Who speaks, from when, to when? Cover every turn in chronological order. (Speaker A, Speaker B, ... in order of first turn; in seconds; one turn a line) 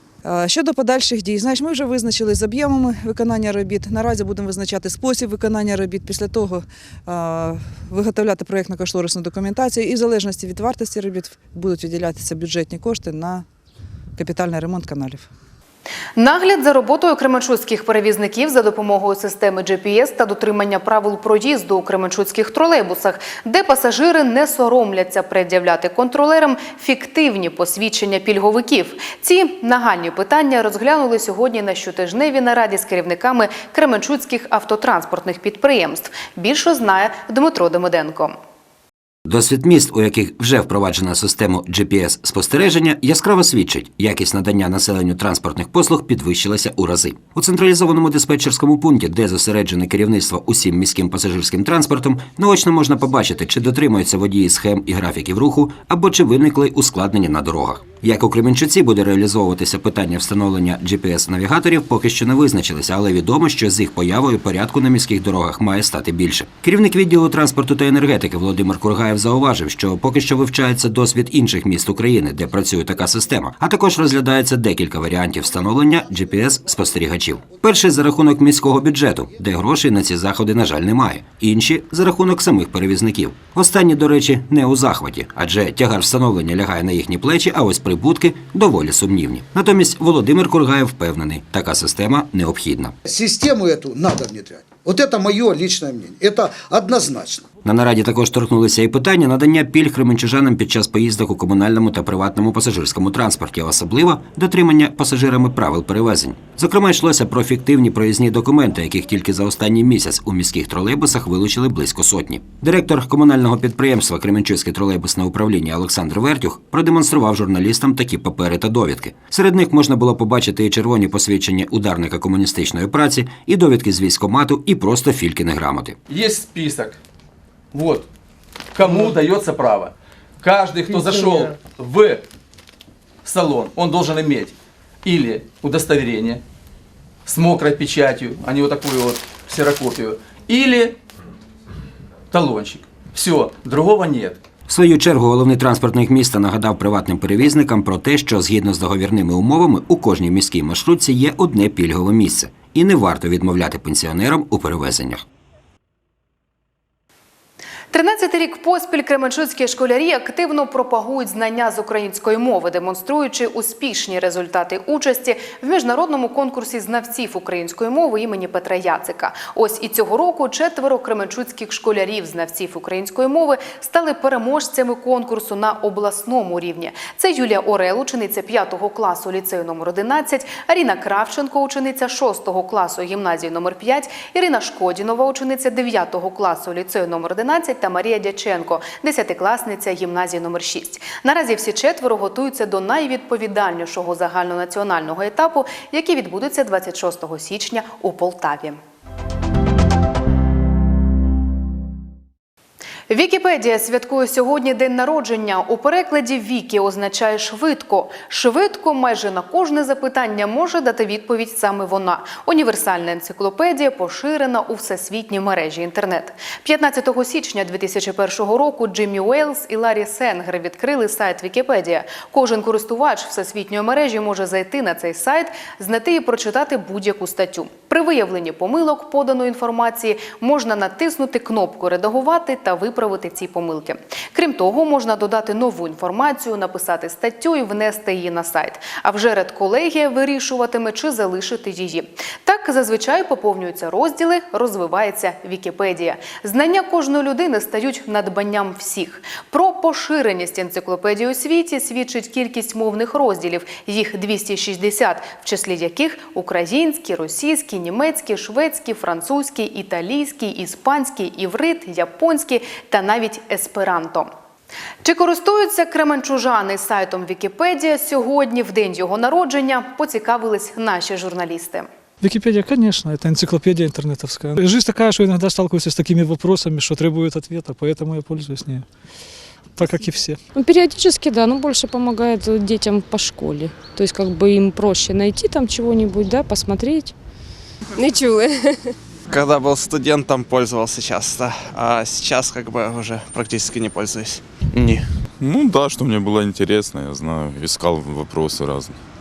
Speaker A: 0.2-13.5
Speaker A: 14.2-15.3
Speaker B: 16.2-38.3
Speaker C: 39.3-93.0
Speaker D: 93.1-97.4
Speaker C: 97.6-126.0
Speaker E: 126.1-127.0
Speaker E: 127.7-128.1
Speaker E: 128.8-132.2
Speaker E: 133.2-134.5
Speaker E: 135.1-136.4
Speaker E: 137.3-141.0
Speaker E: 142.3-144.4
Speaker C: 144.7-155.2
Speaker B: 157.9-198.8
Speaker B: 203.1-264.3
Speaker B: 265.0-271.9
Speaker F: 272.2-278.8
Speaker F: 279.8-280.4
Speaker G: 280.6-287.1
Speaker H: 289.3-294.4
Speaker I: 295.4-299.0